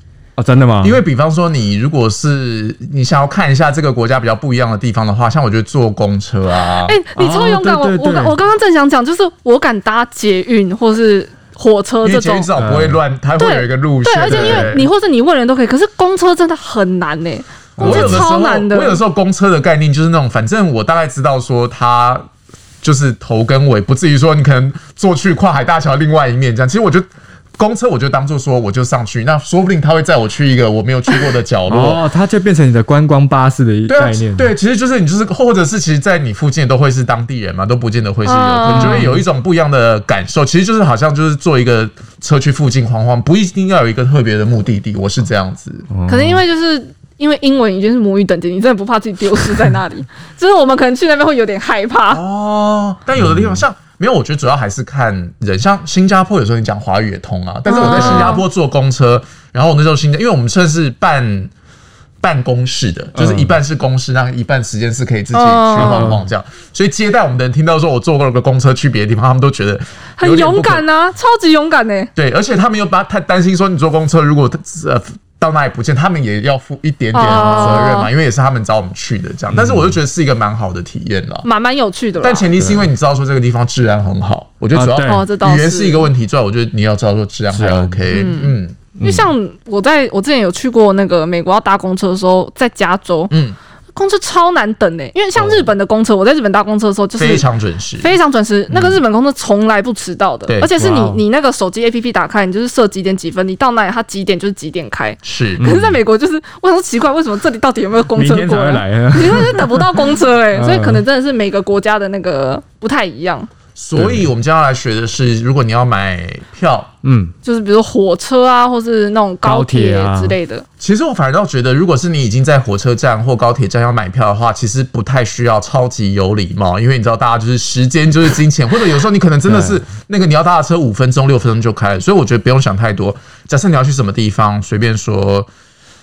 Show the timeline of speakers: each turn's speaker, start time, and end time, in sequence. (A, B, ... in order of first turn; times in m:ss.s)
0:00.4-0:01.0 A
0:00.8-0:07.0 B
0:06.8-0:12.5 C
0:07.1-0:08.4 A
0:12.0-0:14.9 B
0:12.5-0:13.0 A
0:13.4-0:19.0 C
0:14.2-0:14.7 A
0:17.8-0:18.3 A
0:17.8-0:22.2 B
0:22.8-0:32.0 B
0:31.7-0:34.5 A
0:33.9-0:45.9 B
0:38.2-0:39.0 C
0:38.6-0:39.2 A
0:45.9-0:46.4 A
0:46.1-0:52.2 C
0:52.1-1:01.5 B
0:53.2-0:53.6 A
0:57.7-0:58.4 C
0:57.8-0:58.4 A
1:02.2-1:10.8 B
1:03.1-1:03.5 A
1:05.3-1:06.1 C
1:05.7-1:06.2 A
1:10.2-1:12.1 C
1:12.2-1:21.4 B
1:17.1-1:18.1 C
1:19.5-1:20.0 A
1:21.4-1:22.5 C
1:22.2-1:28.8 B
1:22.6-1:22.9 A
1:24.7-1:25.2 A
1:25.0-1:26.1 C
1:27.5-1:28.0 A
1:28.1-1:33.3 C
1:29.0-1:29.3 A
1:33.3-1:33.6 B
1:33.9-1:37.5 C
1:35.3-1:35.7 B
1:37.2-1:38.1 B
1:38.0-1:53.5 C
1:40.8-1:41.2 A
1:45.2-1:45.7 B
1:45.6-1:46.0 A
1:48.1-1:51.0 A
1:53.8-1:56.9 B
1:54.0-1:54.3 A
1:57.0-1:57.3 A
1:57.4-2:00.6 C
1:59.4-2:00.4 A
2:00.8-2:15.5 B
2:09.4-2:09.8 A